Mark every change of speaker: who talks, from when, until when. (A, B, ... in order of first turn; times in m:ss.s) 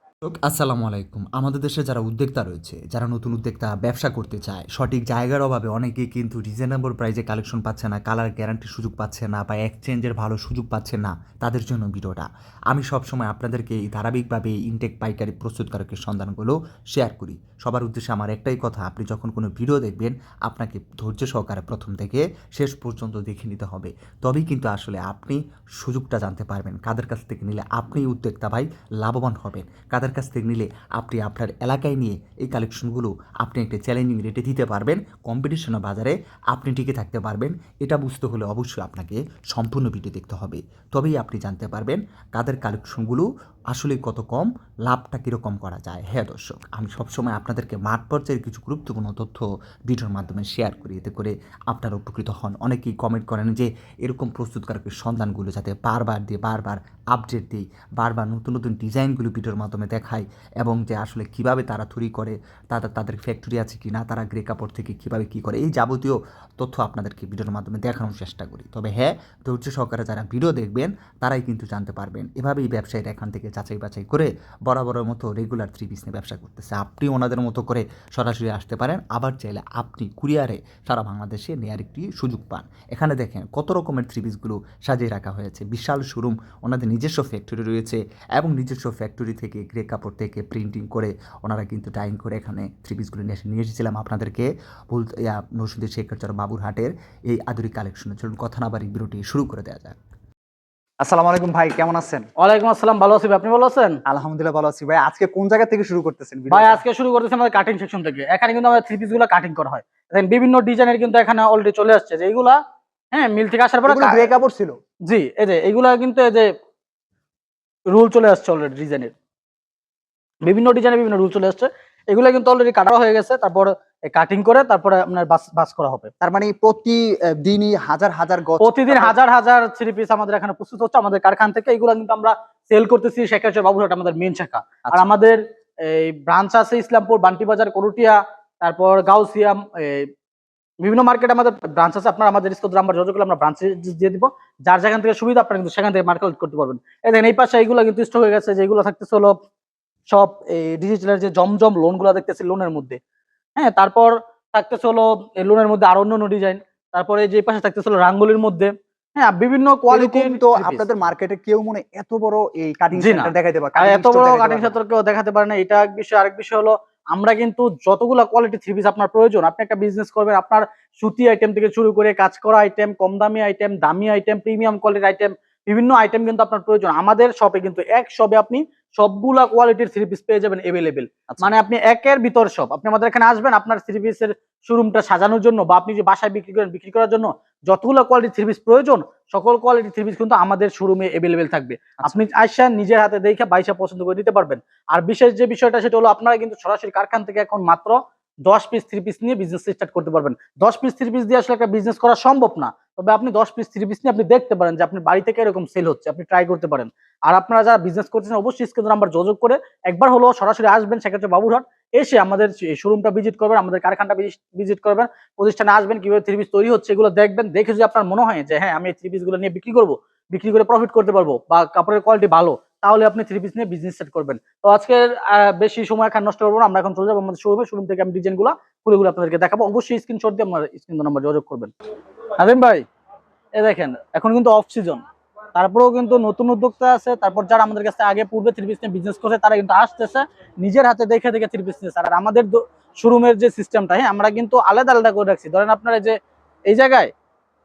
0:00.2-1:40.0 A
1:41.0-1:42.2 B
1:42.4-1:44.0 C
1:44.0-1:46.8 B
1:46.5-1:52.6 C
1:53.1-1:54.3 C
1:53.8-1:54.8 B
1:55.0-1:56.5 C
1:57.9-1:59.1 C
2:00.4-2:06.1 C
2:06.2-2:09.1 B
2:08.6-2:20.1 C
2:20.8-2:29.4 C
2:30.1-2:33.0 C
2:33.6-2:40.8 C
2:39.9-2:44.7 B
2:43.0-3:51.7 C
3:52.4-3:52.8 C
3:53.5-3:55.0 C
3:55.5-4:06.2 C
4:06.7-4:07.1 C